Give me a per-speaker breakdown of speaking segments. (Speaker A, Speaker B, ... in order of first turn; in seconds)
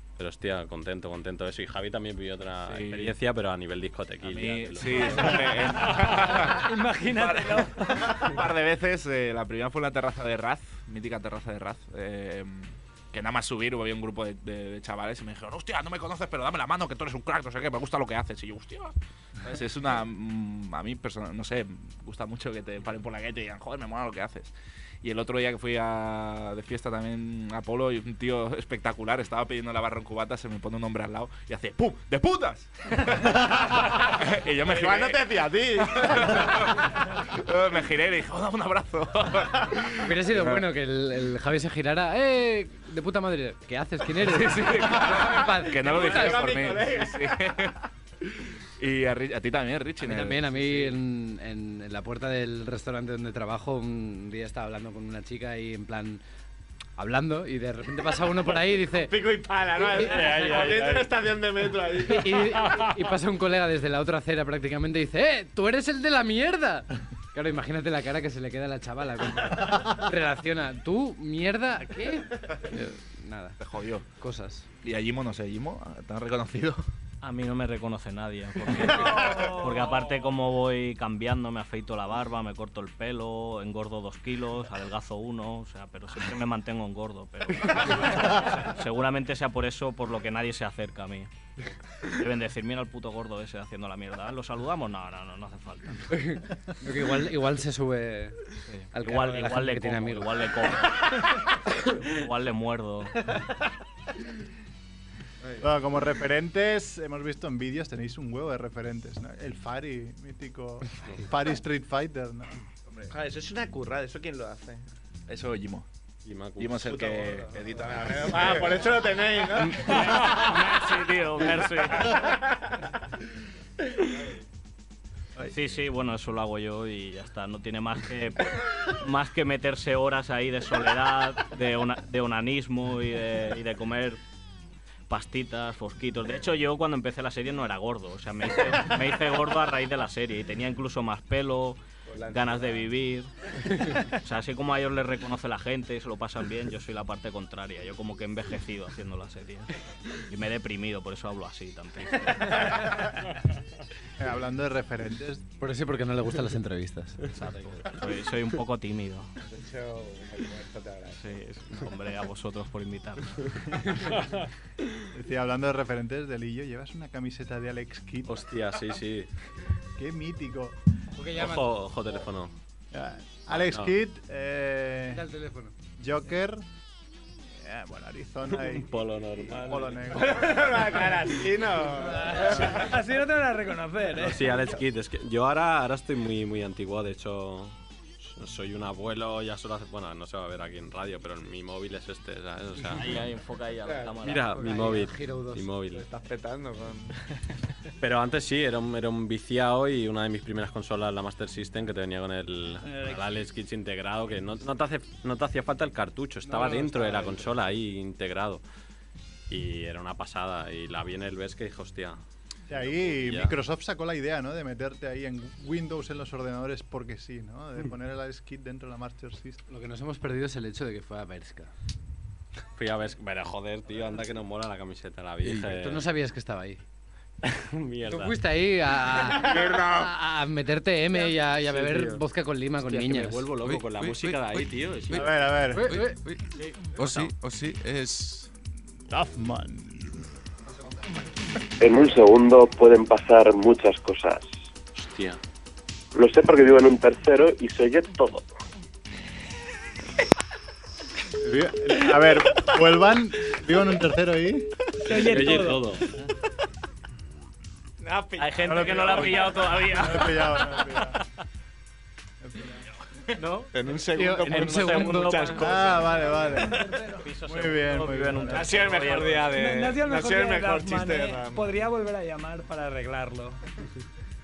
Speaker A: 0.2-5.6, 60.1-61.1, 116.2-117.0, 168.3-169.3, 171.3-172.5, 173.5-173.9, 178.5-180.2, 184.1-193.2, 194.2-196.1, 198.0-208.6, 209.5-212.2, 212.8-213.6, 222.8-226.1, 227.4-228.4, 231.6-232.2, 232.8-235.3, 245.0-245.4, 255.1-256.1
Speaker B: 2.6-3.1, 4.2-40.7, 44.2-47.8, 48.8-50.8, 73.6-74.1, 74.8-76.8, 115.3-115.9, 116.6-118.8
Speaker C: 6.0-8.3, 79.1-80.2, 182.2-184.8, 202.9-203.2, 255.1-255.9, 266.6-267.2, 269.4-273.6
Speaker D: 34.6-36.6, 45.6-47.7, 58.9-62.6, 78.9-79.5, 113.1-114.8, 116.8-120.3, 122.1-122.4, 142.1-142.9, 159.5-161.4, 180.1-182.9, 193.9-194.2, 195.9-197.2, 229.2-230.1, 258.0-259.7, 263.7-266.6, 268.5-271.8
Speaker E: 40.0-46.7, 50.0-56.2, 57.0-61.0, 61.9-73.6, 74.2-74.7, 96.1-100.4, 155.6-157.2, 171.2-171.8, 175.1-175.7, 194.5-195.7, 219.7-221.7, 225.6-226.8, 228.1-233.5, 235.7-236.2, 264.2-265.6
Speaker F: 77.2-91.3, 92.1-96.1, 98.7-101.1, 102.0-103.2, 119.7-122.3, 125.5-134.2, 135.1-143.3, 144.2-149.7, 150.3-152.9, 157.3-159.3, 161.2-163.4, 193.0-194.6, 258.4-261.1, 263.4-263.7, 265.1-265.8, 267.2-269.6
Speaker G: 105.6-112.5, 154.2-155.5, 165.1-168.4, 170.0-170.8, 172.9-175.2, 176.0-176.6, 177.6-181.1, 212.7-219.6, 235.1-235.9, 239.1-240.2, 251.4-254.7, 258.6-261.2, 262.4-262.8, 264.2-269.2
Speaker H: 233.6-236.4, 236.9-238.5
Speaker I: 241.8-244.5, 246.2-248.5